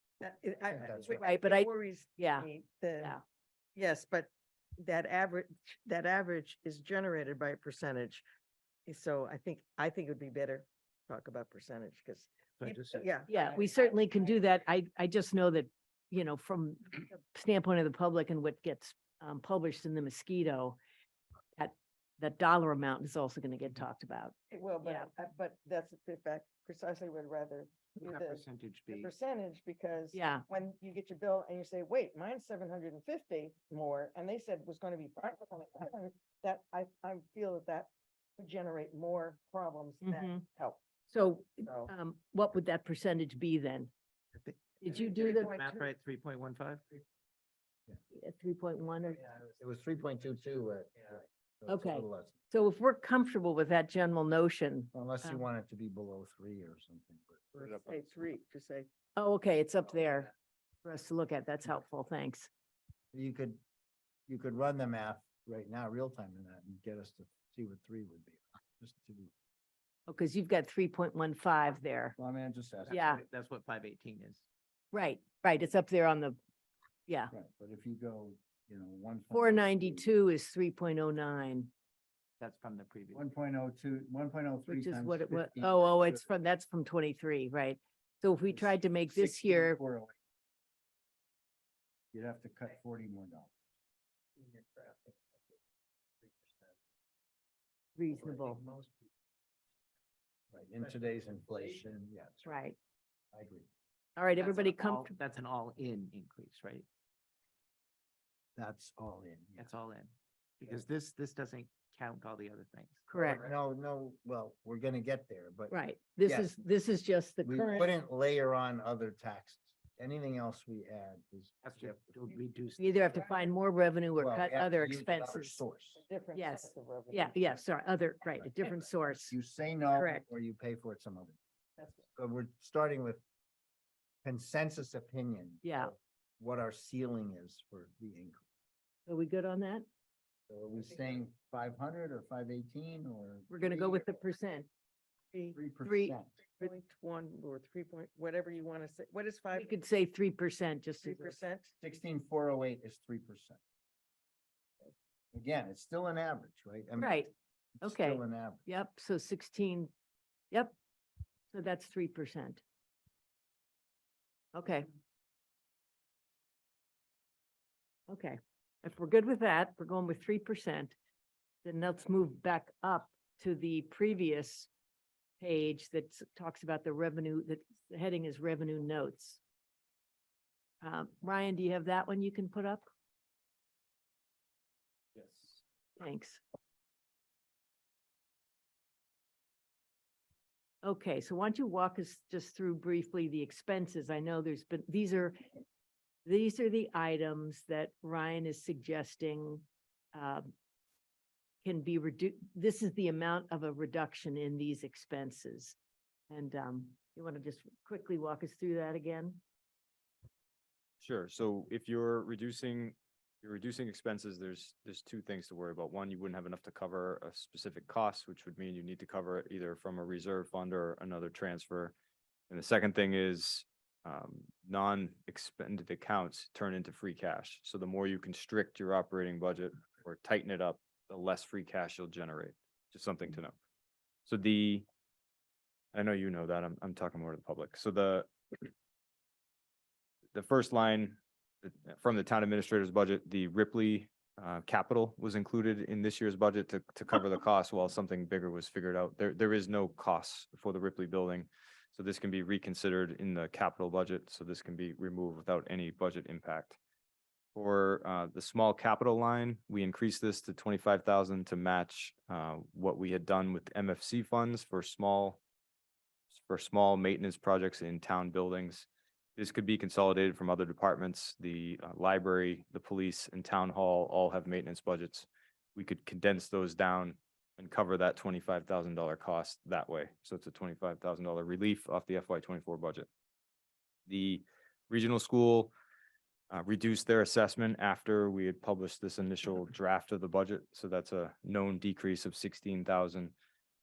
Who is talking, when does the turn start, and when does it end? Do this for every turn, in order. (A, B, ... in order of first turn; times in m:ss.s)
0:00.2-0:03.2 A
0:00.7-0:01.2 B
0:00.8-0:01.2 C
0:01.2-0:02.5 D
0:03.8-0:08.2 A
0:08.9-0:14.4 A
0:12.6-0:13.2 B
0:13.3-0:20.8 D
0:21.6-0:25.1 D
0:24.5-0:40.8 A
0:28.0-0:29.1 B
0:30.1-0:30.4 D
0:40.0-0:40.4 D
0:41.1-0:43.9 D
0:41.6-0:41.9 A
0:44.8-0:45.5 D
0:44.9-0:45.8 A
0:45.5-0:46.8 B
0:48.1-0:49.3 D
0:49.6-0:52.4 C
0:51.7-0:55.4 D
0:54.9-0:57.7 C
0:57.5-0:58.9 A
0:59.2-1:00.3 D
1:00.8-1:02.5 D
1:03.1-1:03.6 C
1:04.3-1:09.3 C
1:10.1-1:12.2 D
1:12.2-1:13.0 C
1:12.9-1:14.4 B
1:12.9-1:13.2 D
1:14.9-1:16.4 D
1:17.1-1:17.3 D
1:17.3-1:20.1 C
1:19.3-1:21.7 D
1:22.4-1:23.2 B
1:23.1-1:26.3 C
1:24.7-1:29.8 D
1:28.5-1:30.1 C
1:32.1-1:33.5 C
1:38.0-1:38.6 D
1:40.5-1:42.6 C
1:42.4-1:42.8 D
1:43.3-1:43.7 C
1:44.2-1:45.1 D
1:44.4-1:46.8 B
1:48.6-1:49.7 C
1:49.6-1:53.0 B
1:53.1-1:53.4 D
1:53.1-1:56.5 C
1:55.7-1:58.0 D
1:57.4-2:02.0 C
2:01.6-2:03.1 B
2:02.8-2:05.6 D
2:04.2-2:06.0 C
2:06.0-2:07.4 A
2:06.3-2:09.3 D
2:09.3-2:11.4 C
2:09.9-2:10.3 D
2:12.1-2:13.2 C
2:14.2-2:18.4 C
2:15.6-2:15.9 D
2:19.1-2:19.8 D
2:20.5-2:24.1 C
2:23.5-2:24.7 D
2:25.3-2:25.6 A
2:25.5-2:26.3 C
2:25.8-2:26.7 D
2:26.6-2:29.7 A
2:29.5-2:31.4 D
2:31.0-2:31.7 A
2:31.8-2:33.6 C
2:35.3-2:37.3 C
2:37.0-2:37.3 D
2:37.8-2:38.6 C
2:37.8-2:39.9 D
2:41.5-2:42.6 D
2:44.5-2:44.9 D
2:48.1-2:50.9 D
2:51.6-2:54.7 D
2:55.4-2:59.4 D
3:00.8-3:02.8 D
3:05.2-3:05.6 E
3:06.0-3:06.4 D
3:10.8-3:15.4 D
3:16.2-3:20.5 D
3:21.6-3:25.7 D
3:26.3-3:29.4 D
3:31.0-3:41.9 E
3:42.5-3:53.5 E
3:54.2-3:54.8 E
3:55.9-3:58.7 E
4:00.3-4:16.8 E
4:17.5-4:25.4 E
4:26.3-4:43.1 E
4:44.1-4:45.7 E
4:46.5-4:53.3 E